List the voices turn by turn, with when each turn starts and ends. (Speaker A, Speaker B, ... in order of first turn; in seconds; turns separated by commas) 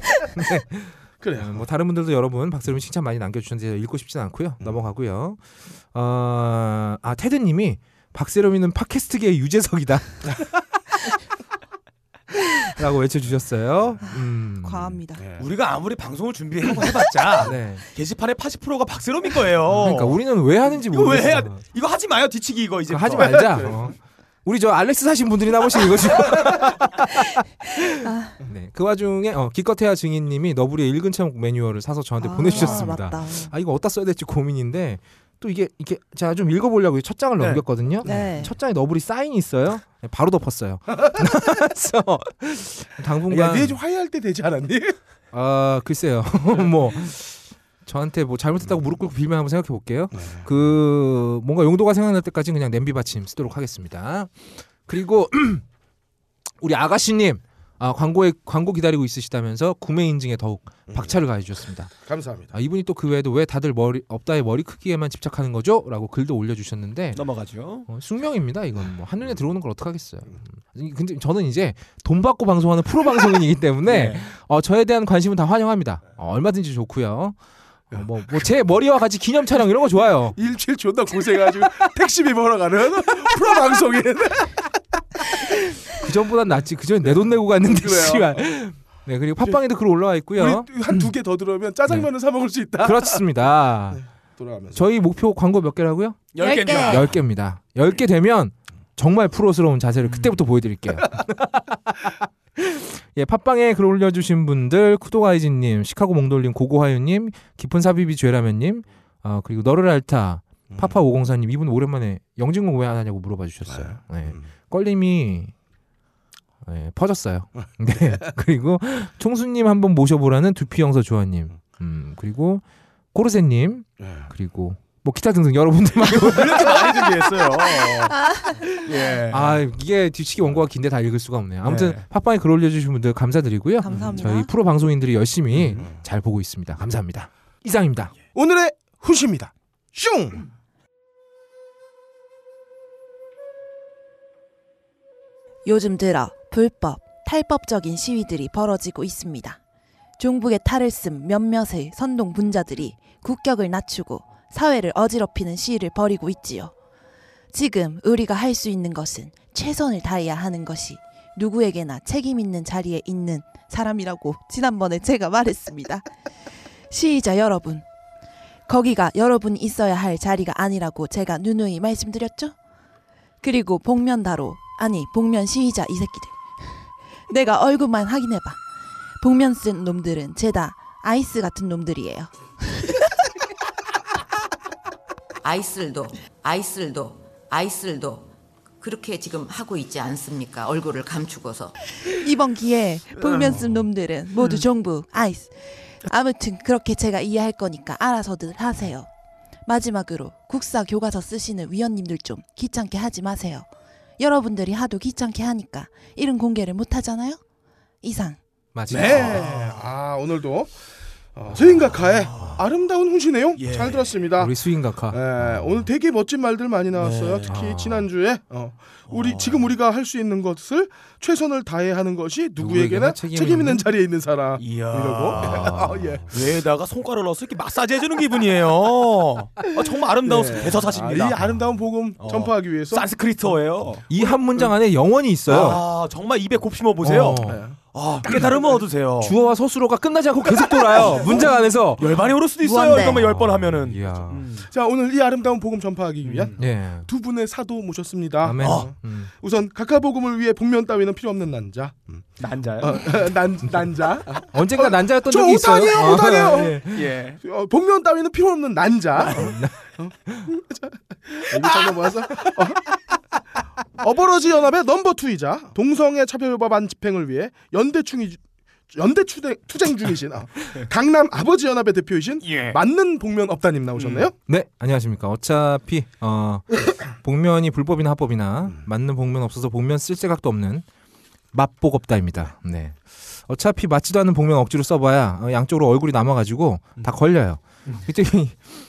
Speaker A: 0.3-5.4, Speaker B: 1.2-1.6, Speaker A: 5.9-10.6, Speaker A: 12.6-15.0, Speaker C: 14.1-15.2, Speaker B: 15.2-15.4, Speaker D: 15.4-20.2, Speaker A: 17.4-17.8, Speaker A: 19.7-21.6, Speaker D: 20.7-23.5, Speaker A: 22.9-43.8, Speaker B: 23.2-23.9, Speaker C: 28.0-28.4, Speaker C: 32.2-33.5, Speaker B: 32.6-32.9, Speaker C: 38.0-38.5, Speaker B: 43.3-44.9, Speaker A: 45.3-54.3, Speaker B: 50.1-50.5, Speaker A: 54.9-55.6, Speaker A: 56.6-61.9, Speaker B: 60.9-61.2, Speaker B: 62.0-62.5, Speaker A: 62.5-67.2, Speaker D: 67.1-67.8, Speaker A: 67.9-77.3, Speaker D: 73.8-74.2, Speaker A: 77.9-80.4, Speaker B: 80.3-84.7, Speaker A: 85.9-91.1, Speaker B: 87.0-88.5, Speaker B: 90.3-93.2, Speaker A: 92.8-94.0, Speaker B: 93.9-94.8, Speaker A: 94.7-115.5, Speaker D: 96.3-97.1, Speaker C: 96.4-97.1, Speaker D: 100.0-100.3, Speaker B: 113.7-114.4, Speaker A: 116.6-122.6, Speaker A: 123.1-126.9, Speaker B: 124.0-124.3, Speaker D: 126.0-128.2, Speaker C: 128.1-128.6, Speaker D: 128.7-129.6, Speaker A: 129.3-138.1, Speaker D: 131.7-132.0, Speaker C: 133.8-134.5, Speaker B: 135.7-136.0, Speaker B: 138.3-140.4, Speaker C: 145.6-149.6, Speaker C: 150.2-156.7, Speaker C: 157.5-166.1, Speaker C: 166.9-167.8, Speaker C: 168.7-172.5, Speaker C: 173.4-176.4, Speaker C: 177.3-178.6, Speaker C: 179.2-183.1, Speaker E: 185.4-191.7, Speaker C: 192.0-199.1, Speaker D: 193.3-193.6, Speaker C: 199.7-203.7, Speaker C: 204.2-207.4, Speaker C: 208.0-208.4, Speaker A: 208.7-209.4, Speaker B: 208.9-210.7, Speaker D: 209.3-209.7, Speaker B: 211.3-214.6, Speaker D: 212.2-212.6, Speaker D: 213.6-214.2, Speaker A: 214.4-215.8, Speaker B: 215.1-226.4, Speaker D: 217.0-217.5, Speaker A: 217.5-218.1, Speaker D: 219.1-219.7, Speaker A: 222.6-223.8, Speaker D: 224.6-231.4, Speaker A: 225.5-225.8, Speaker B: 230.2-233.1, Speaker D: 232.2-234.7, Speaker A: 234.1-235.8, Speaker D: 235.5-239.3, Speaker A: 237.0-237.6, Speaker B: 237.4-237.8, Speaker A: 239.2-242.2, Speaker D: 240.9-244.7, Speaker B: 241.0-241.4, Speaker C: 242.6-243.3, Speaker A: 243.0-244.4, Speaker B: 244.7-262.9, Speaker D: 246.2-246.6, Speaker A: 246.6-247.1, Speaker A: 248.4-249.3, Speaker D: 248.6-248.9, Speaker D: 252.4-253.1, Speaker A: 254.5-257.1, Speaker D: 256.8-257.4, Speaker D: 259.2-259.5, Speaker A: 259.3-259.7, Speaker B: 264.0-274.3, Speaker D: 272.4-272.8, Speaker D: 274.0-274.3, Speaker A: 274.5-280.8, Speaker A: 281.5-282.9, Speaker A: 283.5-288.6